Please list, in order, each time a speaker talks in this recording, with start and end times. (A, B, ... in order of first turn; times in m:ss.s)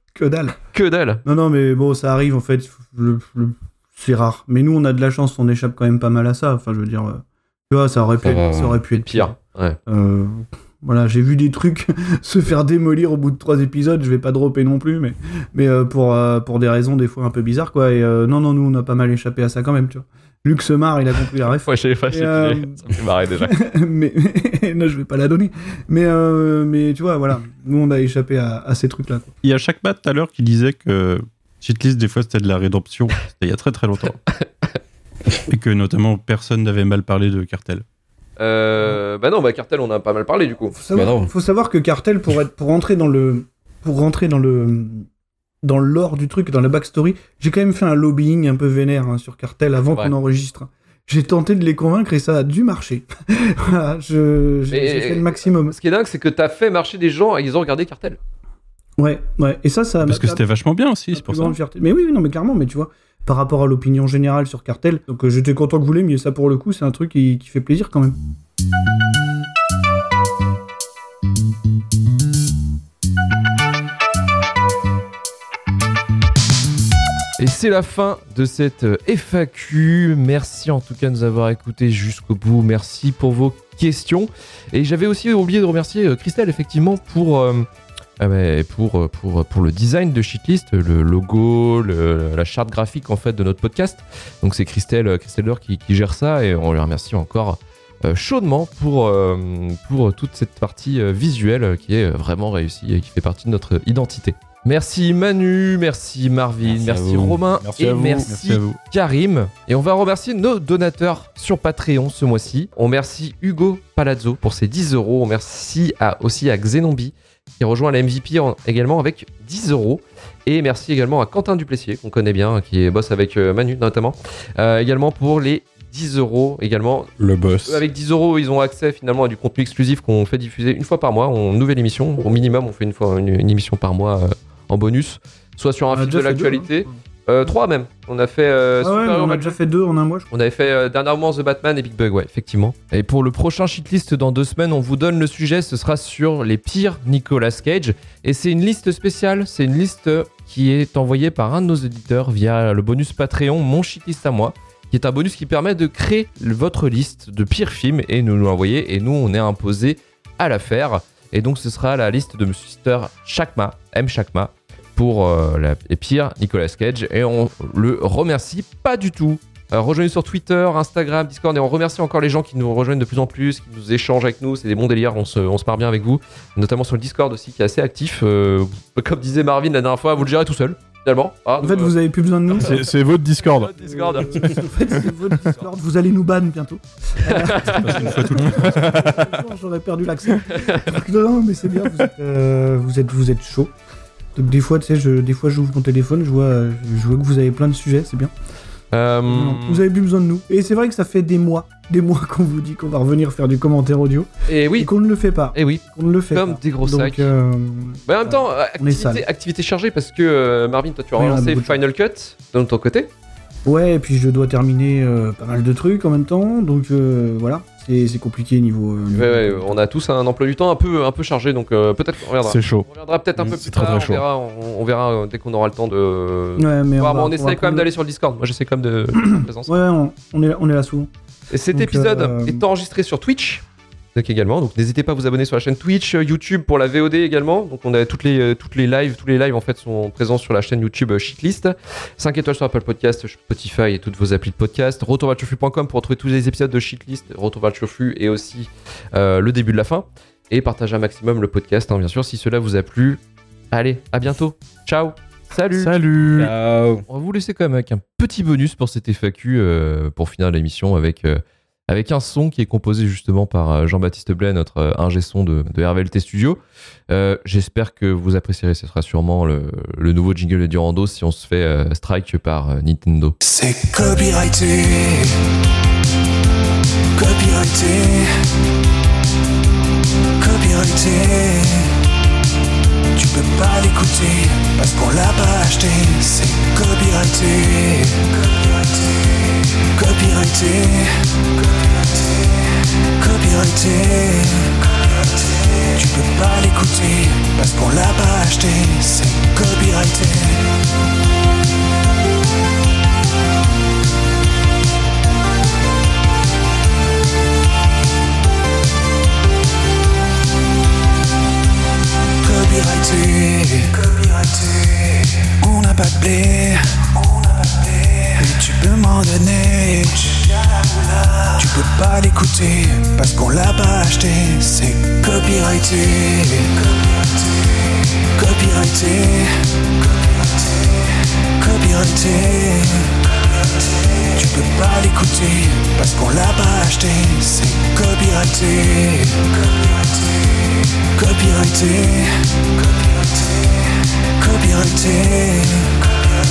0:00.1-0:00.6 A
0:00.7-0:01.2 B
0:01.2-0:09.4 A
0:08.2-0:08.8 C
0:09.0-0:09.8 B
0:09.9-0:29.3 A
0:21.5-0:23.5 B
0:29.4-0:34.2 D
0:35.5-0:37.8 D
0:38.4-0:40.7 B
0:40.7-0:45.0 A
0:40.9-0:41.3 C
0:45.6-0:55.8 A
0:54.7-0:58.2 B
0:59.0-1:00.4 A
1:00.0-1:01.6 D
1:01.1-1:08.2 A
1:17.4-1:27.6 B
1:28.2-2:07.1 B
1:46.6-1:47.4 C
1:47.6-1:48.3 E
1:48.2-1:48.8 D
2:07.2-2:07.8 E
2:07.6-2:19.6 B
2:15.9-2:17.0 A
2:18.8-2:20.3 A
2:20.3-3:01.9 B
3:01.6-3:02.9 A
3:02.5-3:03.7 E
3:03.4-3:04.7 B
3:03.8-3:13.7 A
3:07.2-3:08.1 B
3:07.6-3:09.2 D
3:08.6-3:09.3 E
3:14.3-3:18.3 A
3:18.9-3:19.8 B
3:19.2-3:29.2 A
3:24.5-3:24.9 B
3:25.5-3:27.3 B
3:28.0-3:33.1 B
3:31.2-3:31.8 A
3:33.6-3:39.8 A
3:39.1-3:49.7 B
3:42.4-3:42.9 E
3:43.4-3:44.2 E
3:46.6-3:47.9 A
3:49.2-3:51.1 A
3:51.5-3:53.6 B
3:51.7-3:52.6 A
3:54.1-4:16.0 B
4:15.7-4:16.5 E
4:16.3-4:17.0 C
4:17.1-4:33.4 B
4:33.4-4:35.4 F
4:37.1-4:38.4 F
4:40.4-4:42.0 F
4:43.1-4:49.3 F
4:49.9-4:52.6 F
4:53.1-5:00.8 F
5:12.4-5:27.5 F
5:28.3-5:31.0 F
5:31.5-5:33.3 F
5:34.2-5:40.4 F
5:41.1-5:43.8 F
5:44.4-5:46.3 F